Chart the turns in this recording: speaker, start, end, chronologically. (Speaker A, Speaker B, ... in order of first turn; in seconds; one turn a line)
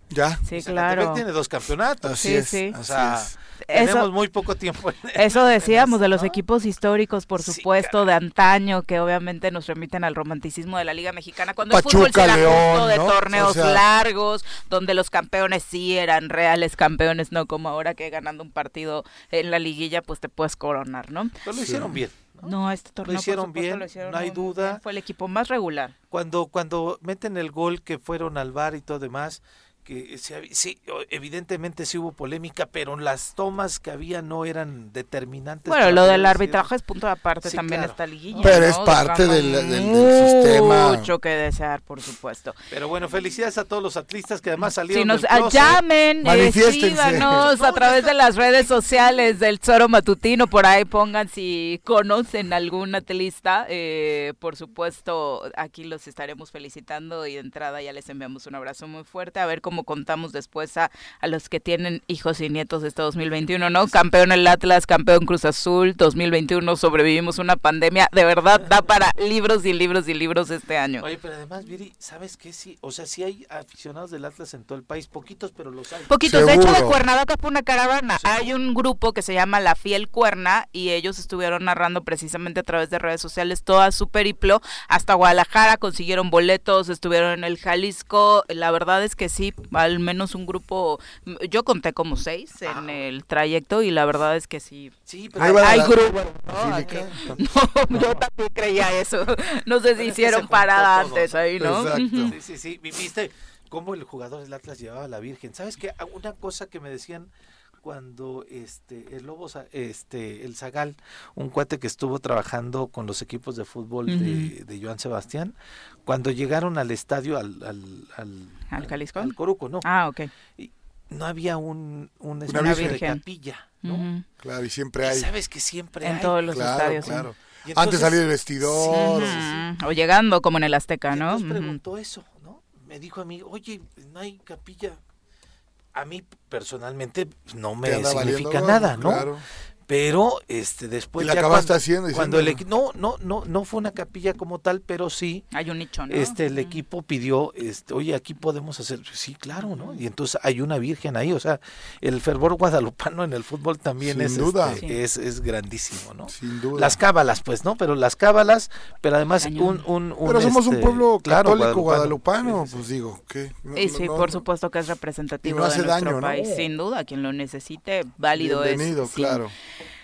Speaker A: 0.1-0.4
Speaker B: 0.5-1.2
Speaker C: 0.5-6.4
Speaker A: 2.0-3.3
Speaker B: 2.2-2.8
Speaker B: 3.7-4.1
Speaker B: 5.2-21.3
Speaker C: 7.4-8.0
Speaker A: 11.7-13.8
Speaker C: 21.4-24.8
Speaker A: 21.6-21.9
Speaker B: 22.4-25.9
Speaker C: 26.1-36.7
Speaker B: 35.7-42.5
Speaker C: 37.4-38.6
Speaker A: 38.4-41.1
Speaker C: 42.7-45.8
Speaker B: 44.9-71.0
Speaker A: 46.2-47.5
Speaker C: 47.2-48.5
Speaker C: 71.0-76.5
Speaker B: 76.1-102.3
Speaker A: 76.2-77.0
Speaker C: 78.1-78.5
Speaker C: 92.6-93.0
Speaker C: 95.1-95.8
Speaker A: 95.3-97.4
Speaker C: 100.0-101.4
Speaker A: 101.6-102.3
Speaker C: 102.2-107.3
Speaker C: 107.8-115.5
Speaker B: 114.1-114.5
Speaker C: 116.0-119.9
Speaker B: 118.7-120.3
Speaker C: 120.5-124.0
Speaker A: 122.5-123.0
Speaker B: 122.6-123.2
Speaker B: 123.8-124.2
Speaker A: 124.4-125.3
Speaker C: 125.0-129.6
Speaker B: 126.0-127.2
Speaker A: 126.5-129.5
Speaker B: 128.9-131.8
Speaker C: 131.1-135.0
Speaker C: 135.9-139.3
Speaker A: 137.8-139.4
Speaker C: 139.9-145.5
Speaker A: 141.2-142.6
Speaker B: 145.5-146.8
Speaker C: 146.1-162.9
Speaker B: 149.6-150.0
Speaker A: 154.0-154.8
Speaker A: 156.3-157.0
Speaker B: 159.4-159.8
Speaker A: 160.2-164.4
Speaker B: 163.7-169.4
Speaker A: 165.4-166.7
Speaker A: 168.3-169.5